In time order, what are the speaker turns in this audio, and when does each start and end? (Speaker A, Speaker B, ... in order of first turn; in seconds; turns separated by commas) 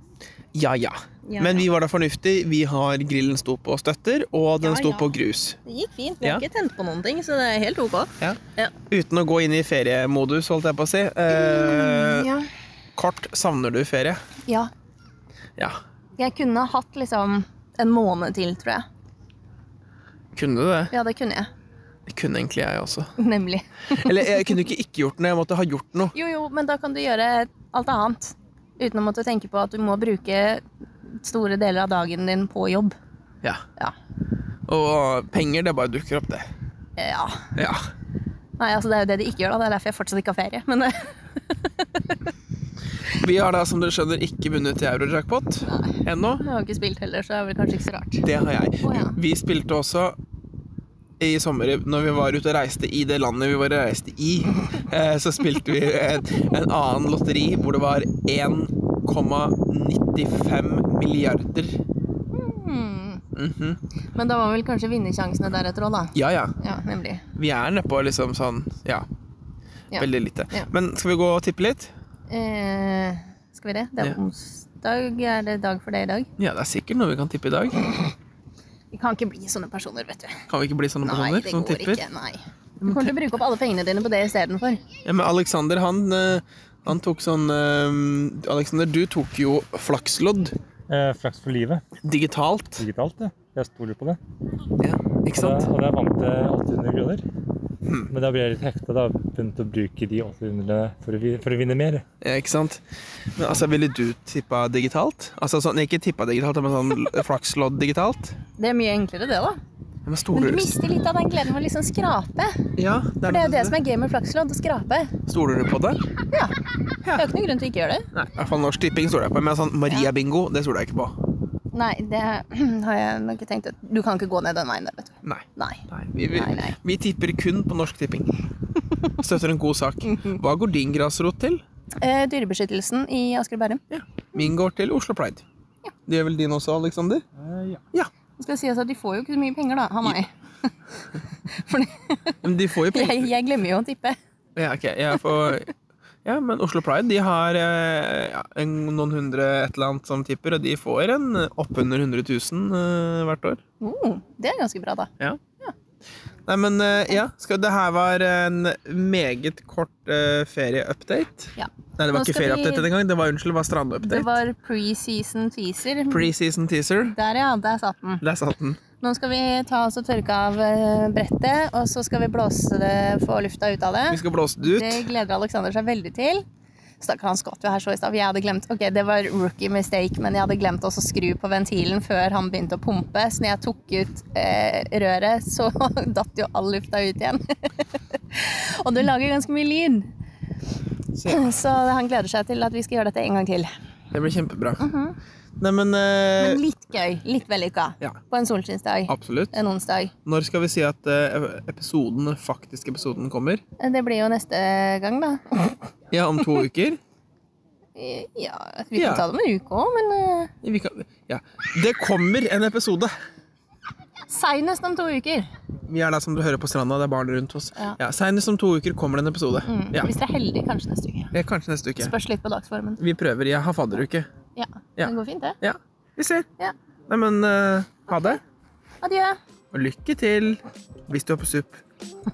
Speaker A: 0.5-5.6, Speaker B: 1.2-1.6, Speaker B: 4.6-5.1, Speaker B: 5.6-8.7, Speaker A: 8.9-12.3, Speaker B: 11.3-12.5, Speaker A: 12.9-14.2, Speaker B: 14.4-14.7, Speaker B: 16.2-18.8, Speaker A: 20.3-20.9, Speaker B: 20.9-21.5, Speaker A: 22.1-23.1, Speaker B: 23.2-24.1, Speaker A: 23.9-26.1, Speaker B: 26.1-32.9, Speaker A: 34.7-36.4, Speaker B: 37.0-37.5, Speaker A: 37.5-37.8, Speaker B: 38.6-42.1, Speaker A: 43.1-46.4, Speaker B: 45.6-48.2, Speaker A: 48.2-50.1, Speaker B: 48.8-49.2, Speaker A: 51.2-61.8, Speaker B: 62.3-63.2, Speaker A: 63.3-63.8, Speaker B: 64.1-67.2, Speaker A: 66.1-66.5, Speaker A: 67.3-69.1, Speaker B: 69.9-70.7, Speaker A: 70.0-71.9, Speaker B: 72.3-76.3, Speaker A: 76.4-77.9, Speaker B: 78.9-80.4, Speaker A: 80.5-82.0, Speaker B: 81.0-84.8, Speaker A: 82.8-83.1, Speaker A: 85.0-90.5, Speaker C: 90.9-91.8, Speaker A: 92.0-92.8, Speaker C: 92.8-94.2, Speaker A: 94.8-95.7, Speaker C: 95.3-97.2, Speaker A: 97.8-98.1, Speaker C: 98.1-102.0, Speaker A: 102.2-102.8, Speaker A: 103.4-108.3, Speaker B: 108.6-109.6, Speaker A: 110.0-110.8, Speaker B: 110.3-112.6, Speaker A: 112.8-113.8, Speaker B: 113.2-115.1, Speaker A: 115.3-116.0, Speaker A: 117.0-117.3, Speaker B: 117.1-118.0, Speaker A: 118.1-121.1, Speaker B: 121.7-126.8, Speaker A: 125.2-128.3, Speaker A: 129.2-131.6, Speaker B: 130.1-130.4, Speaker B: 132.0-133.8, Speaker A: 133.9-135.4, Speaker A: 136.1-137.2, Speaker C: 137.5-137.8, Speaker B: 138.4-140.3, Speaker B: 141.5-144.2, Speaker A: 142.4-143.3, Speaker A: 144.6-145.7, Speaker A: 146.2-153.6, Speaker B: 153.8-155.1, Speaker A: 156.5-164.4, Speaker B: 161.6-162.9, Speaker B: 164.0-166.3, Speaker A: 166.1-167.1, Speaker B: 167.0-168.2, Speaker A: 168.2-168.8, Speaker B: 169.0-176.4, Speaker A: 174.1-175.1, Speaker B: 177.0-190.1, Speaker A: 191.1-191.6, Speaker B: 191.3-193.7, Speaker A: 194.1-194.8, Speaker B: 194.8-195.2, Speaker A: 195.6-196.6, Speaker B: 196.4-200.1, Speaker A: 199.1-199.5, Speaker A: 200.2-203.6, Speaker B: 203.8-205.8, Speaker A: 206.1-207.0, Speaker B: 207.9-210.5, Speaker A: 208.9-209.2, Speaker A: 210.6-213.1, Speaker B: 214.3-215.5, Speaker A: 215.9-220.1, Speaker B: 219.6-221.3, Speaker A: 221.3-222.1, Speaker B: 222.0-223.0, Speaker A: 223.0-224.3, Speaker B: 224.6-225.6, Speaker A: 225.0-226.5, Speaker A: 227.1-228.4, Speaker B: 229.0-229.4, Speaker A: 229.7-231.8